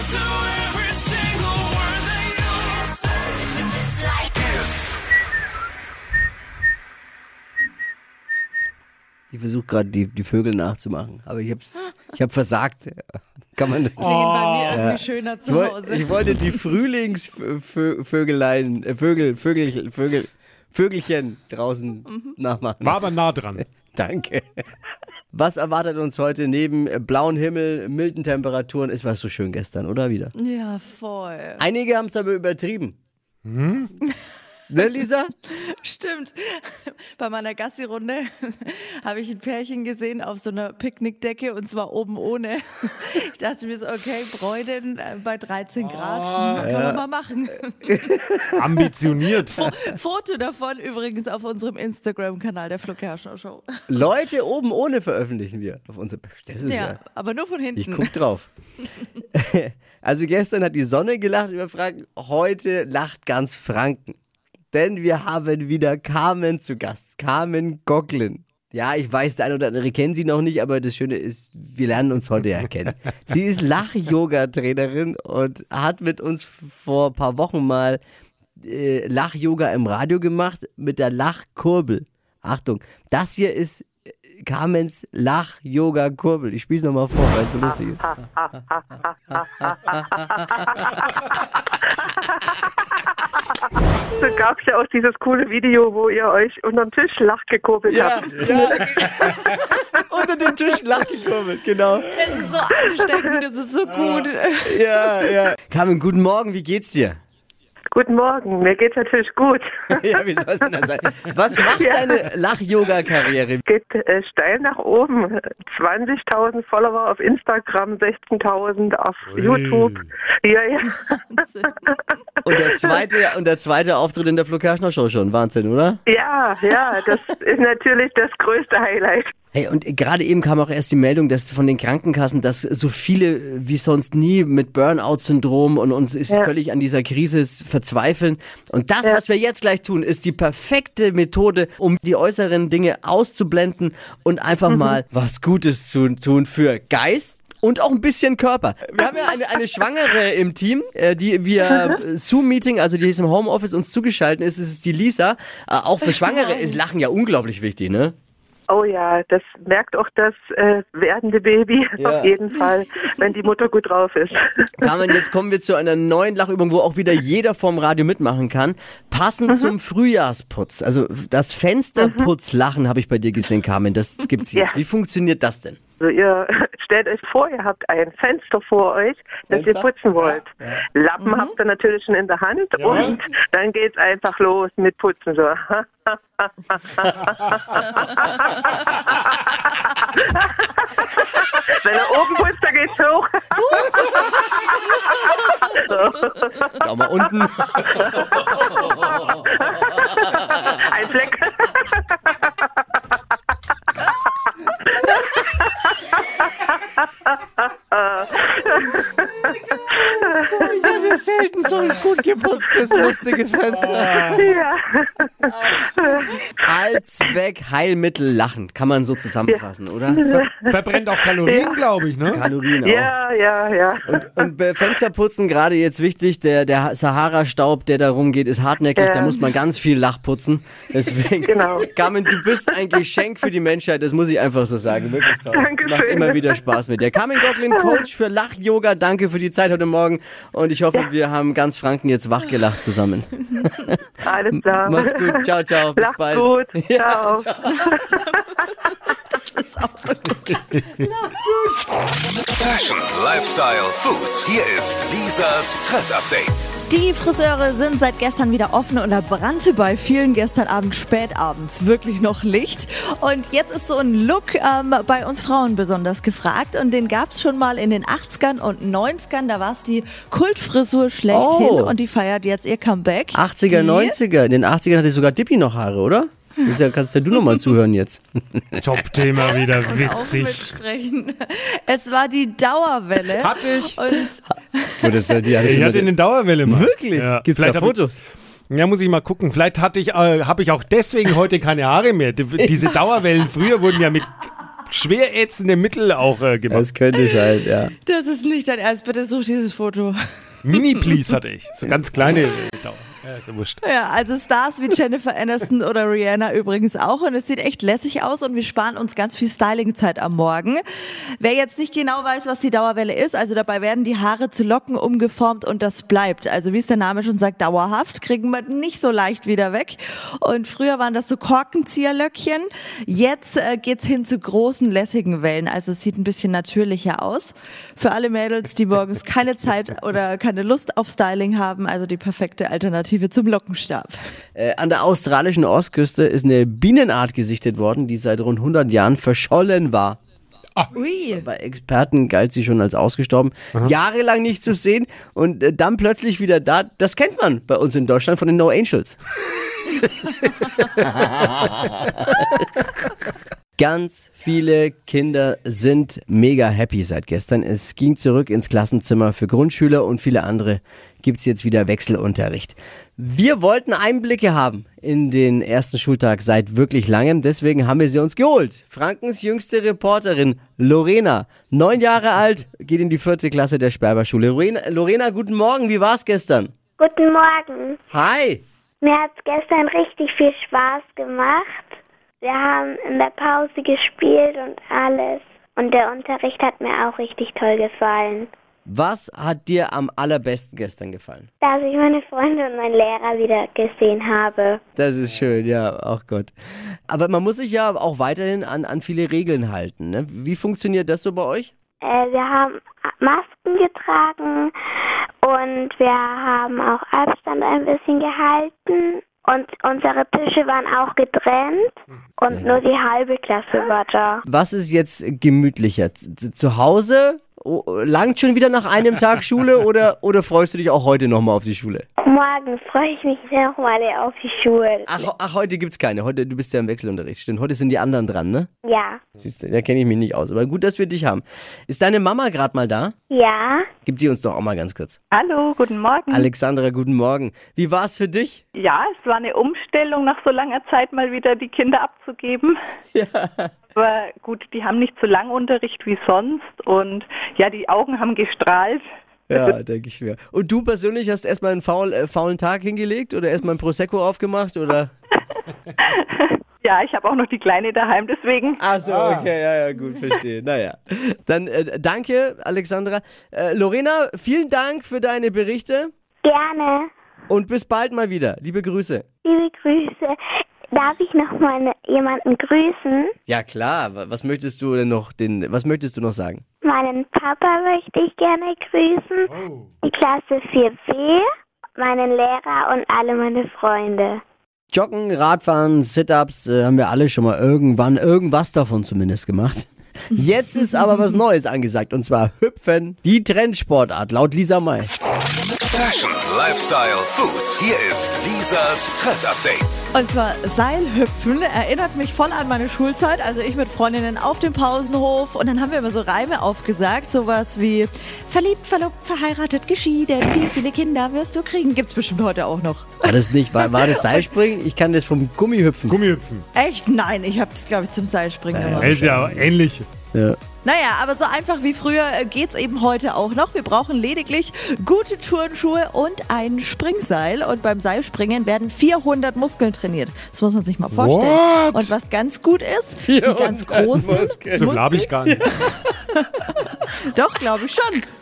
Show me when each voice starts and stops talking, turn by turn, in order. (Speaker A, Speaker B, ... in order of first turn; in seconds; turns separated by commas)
Speaker A: 9.3-13.0, Speaker A: 13.5-14.0, Speaker B: 14.0-16.6, Speaker C: 14.0-14.8, Speaker A: 14.7-23.0, Speaker C: 22.8-23.6, Speaker A: 23.8-24.4, Speaker A: 25.3-30.3, Speaker B: 30.4-31.6, Speaker A: 31.6-33.0, Speaker C: 33.4-33.9, Speaker A: 34.7-35.3, Speaker B: 35.5-48.1, Speaker C: 45.9-46.6, Speaker A: 46.6-47.0, Speaker C: 48.5-49.7, Speaker B: 49.5-53.9, Speaker A: 53.9-57.0, Speaker B: 56.6-58.1, Speaker A: 57.8-58.5, Speaker A: 59.3-64.2, Speaker A: 64.7-78.0, Speaker A: 78.6-88.2, Speaker D: 88.4-91.4, Speaker D: 94.1-99.1, Speaker A: 97.9-102.1, Speaker B: 102.1-105.1, Speaker A: 104.6-107.2, Speaker D: 107.9-110.2, Speaker A: 110.0-113.6, Speaker D: 111.8-112.2, Speaker D: 113.7-121.1, Speaker C: 119.3-120.1, Speaker B: 121.1-121.8, Speaker A: 122.4-126.0, Speaker D: 122.5-123.0, Speaker D: 126.1-129.3, Speaker A: 129.5-158.2, Speaker D: 158.7-164.9, Speaker A: 162.0-162.3, Speaker A: 164.8-175.8, Speaker D: 172.0-172.3, Speaker D: 174.5-174.8, Speaker D: 176.0-196.9, Speaker A: 179.5-180.8, Speaker B: 181.2-181.5, Speaker C: 182.8-183.2, Speaker A: 196.8-198.0, Speaker D: 197.5-202.7, Speaker D: 204.8-210.9, Speaker A: 210.4-214.4, Speaker C: 213.8-214.5, Speaker D: 214.2-216.4, Speaker A: 216.7-220.2, Speaker D: 220.1-221.8, Speaker C: 220.5-222.4, Speaker A: 222.3-223.1, Speaker D: 222.8-224.4, Speaker A: 224.1-244.0, Speaker D: 229.0-229.4, Speaker D: 231.5-232.4, Speaker D: 235.5-236.5, Speaker D: 237.7-238.0, Speaker D: 244.2-245.4, Speaker A: 244.8-247.9, Speaker D: 245.9-248.4, Speaker B: 247.9-250.8, Speaker A: 251.3-251.8, Speaker E: 252.6-256.7, Speaker B: 256.9-274.1, Speaker A: 271.3-272.0, Speaker A: 273.3-278.8, Speaker C: 278.8-280.7, Speaker B: 279.8-285.5, Speaker C: 283.4-283.9, Speaker A: 285.0-288.2, Speaker C: 285.6-288.0, Speaker C: 288.7-296.8, Speaker A: 296.7-297.9, Speaker B: 298.0-300.2, Speaker C: 300.6-303.8, Speaker B: 303.8-334.1, Speaker A: 334.6-340.2, Speaker B: 340.9-341.4, Speaker A: 341.3-349.2, Speaker A: 351.0-351.9, Speaker A: 353.8-376.7, Speaker F: 377.0-378.0, Speaker A: 378.1-378.6, Speaker F: 379.0-388.5, Speaker A: 388.9-391.5, Speaker F: 391.6-394.8, Speaker A: 394.9-396.5, Speaker A: 397.1-401.7, Speaker F: 402.0-404.7, Speaker F: 405.4-414.4, Speaker A: 414.4-422.1, Speaker F: 422.2-425.3, Speaker A: 425.1-428.7, Speaker F: 428.8-429.2, Speaker A: 429.4-433.1, Speaker F: 433.3-433.9, Speaker A: 434.0-435.2, Speaker G: 435.3-436.5, Speaker A: 436.3-438.6, Speaker G: 438.8-442.8, Speaker A: 443.1-443.7, Speaker G: 443.9-449.0, Speaker A: 449.5-455.1, Speaker G: 456.0-458.8, Speaker A: 458.8-466.1, Speaker C: 459.1-459.5, Speaker F: 466.4-467.1, Speaker A: 467.5-469.2, Speaker F: 469.4-470.4, Speaker F: 470.9-473.3, Speaker A: 473.5-476.6, Speaker F: 476.8-484.4, Speaker C: 479.5-479.8, Speaker A: 484.9-495.1, Speaker E: 495.9-500.0, Speaker B: 500.1-514.4, Speaker A: 513.2-516.2, Speaker C: 516.1-516.6, Speaker B: 516.7-519.2, Speaker A: 518.7-519.7, Speaker C: 519.0-520.1, Speaker A: 520.3-520.6, Speaker B: 520.8-535.0, Speaker C: 531.1-532.1, Speaker A: 533.2-535.9, Speaker C: 534.7-535.7, Speaker B: 536.9-538.2